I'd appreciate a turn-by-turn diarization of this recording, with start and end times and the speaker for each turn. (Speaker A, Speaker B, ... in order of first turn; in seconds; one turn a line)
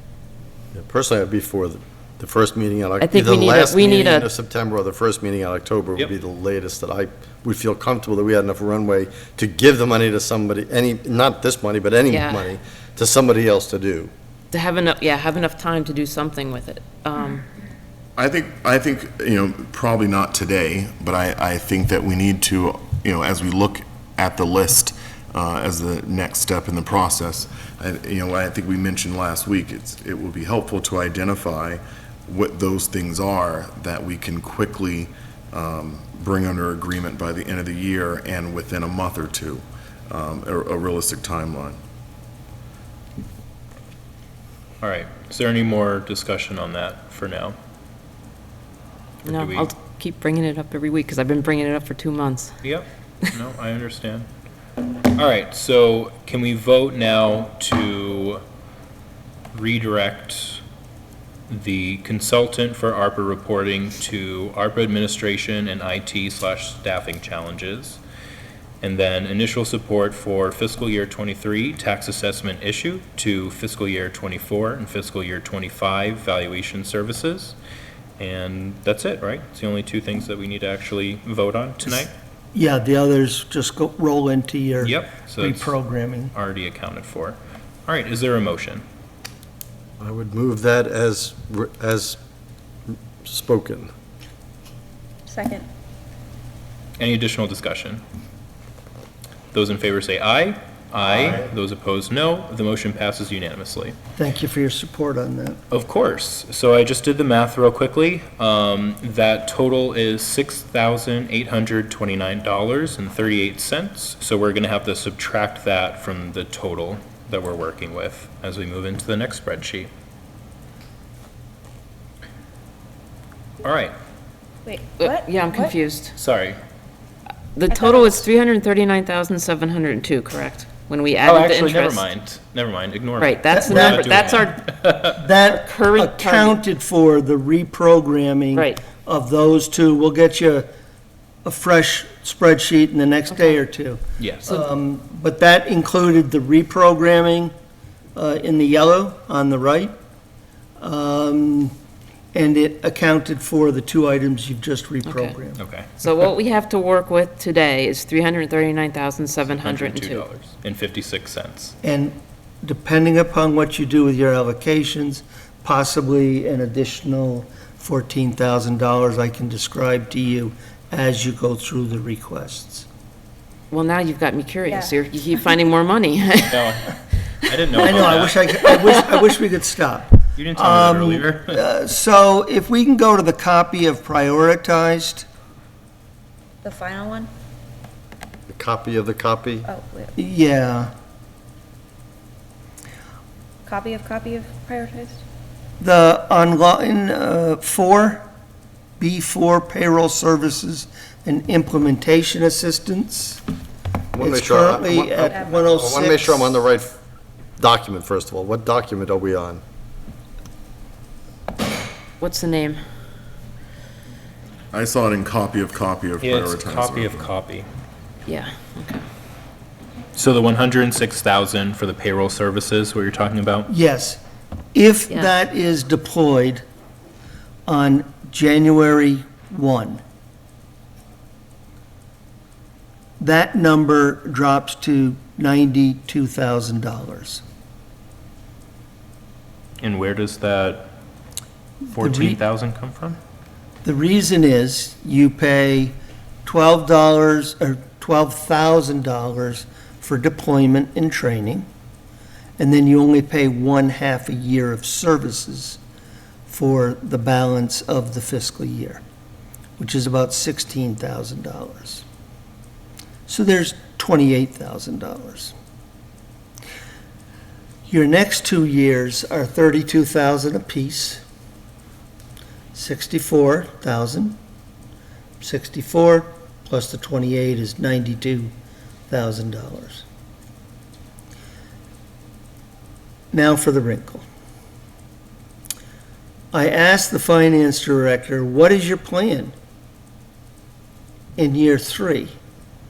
Speaker A: 0.7-14.1
Speaker B: 3.0-4.3
Speaker B: 12.1-12.5
Speaker B: 14.5-17.4
Speaker C: 18.2-41.8
Speaker D: 44.8-47.5
Speaker B: 49.2-52.6
Speaker D: 49.2-49.7
Speaker D: 52.6-54.3
Speaker D: 55.1-58.4
Speaker D: 59.5-60.6
Speaker D: 61.5-68.0
Speaker D: 68.8-77.6
Speaker D: 78.2-82.1
Speaker E: 82.5-86.3
Speaker D: 84.8-85.8
Speaker D: 86.3-88.8
Speaker A: 90.0-92.2
Speaker A: 93.2-93.9
Speaker F: 95.3-95.6
Speaker D: 97.0-98.0
Speaker D: 99.5-104.0
Speaker A: 101.0-101.4
Speaker E: 104.2-105.6
Speaker D: 105.7-119.9
Speaker D: 123.6-123.9
Speaker F: 124.7-125.5
Speaker B: 125.0-126.2
Speaker D: 126.2-126.6
Speaker B: 127.5-132.1
Speaker D: 131.2-135.1
Speaker B: 133.2-134.7
Speaker E: 133.5-140.7
Speaker B: 135.5-136.6
Speaker B: 138.5-138.8
Speaker E: 141.4-147.5
Speaker D: 144.2-144.6
Speaker E: 148.1-149.9
Speaker E: 150.8-151.7
Speaker E: 152.3-155.6
Speaker B: 155.1-155.3
Speaker D: 155.6-155.9
Speaker B: 156.0-160.2
Speaker D: 159.5-161.7
Speaker E: 161.8-172.9
Speaker B: 173.7-176.8
Speaker D: 176.4-178.4
Speaker E: 177.8-185.2
Speaker D: 180.3-181.6
Speaker F: 186.6-187.3
Speaker A: 188.5-189.7
Speaker F: 189.6-190.1
Speaker E: 190.2-190.9
Speaker F: 193.7-195.2
Speaker E: 195.8-198.3
Speaker E: 199.0-203.4
Speaker A: 204.1-206.9
Speaker E: 204.2-206.6
Speaker A: 207.6-209.6
Speaker B: 212.2-212.8
Speaker C: 214.7-217.3
Speaker D: 216.2-217.7
Speaker B: 218.2-219.0
Speaker D: 220.1-223.7
Speaker E: 223.7-224.2
Speaker E: 224.7-226.6
Speaker E: 227.7-230.0
Speaker E: 233.2-237.4
Speaker D: 239.8-240.9
Speaker E: 241.9-242.4
Speaker D: 241.9-243.2
Speaker E: 243.8-251.7
Speaker E: 252.6-255.8
Speaker E: 256.5-259.0
Speaker E: 259.8-262.0
Speaker E: 263.3-265.5
Speaker E: 267.9-271.2
Speaker E: 272.7-274.4
Speaker E: 275.4-278.5
Speaker E: 279.1-280.0
Speaker E: 283.3-284.2
Speaker E: 286.5-289.5
Speaker E: 291.4-292.3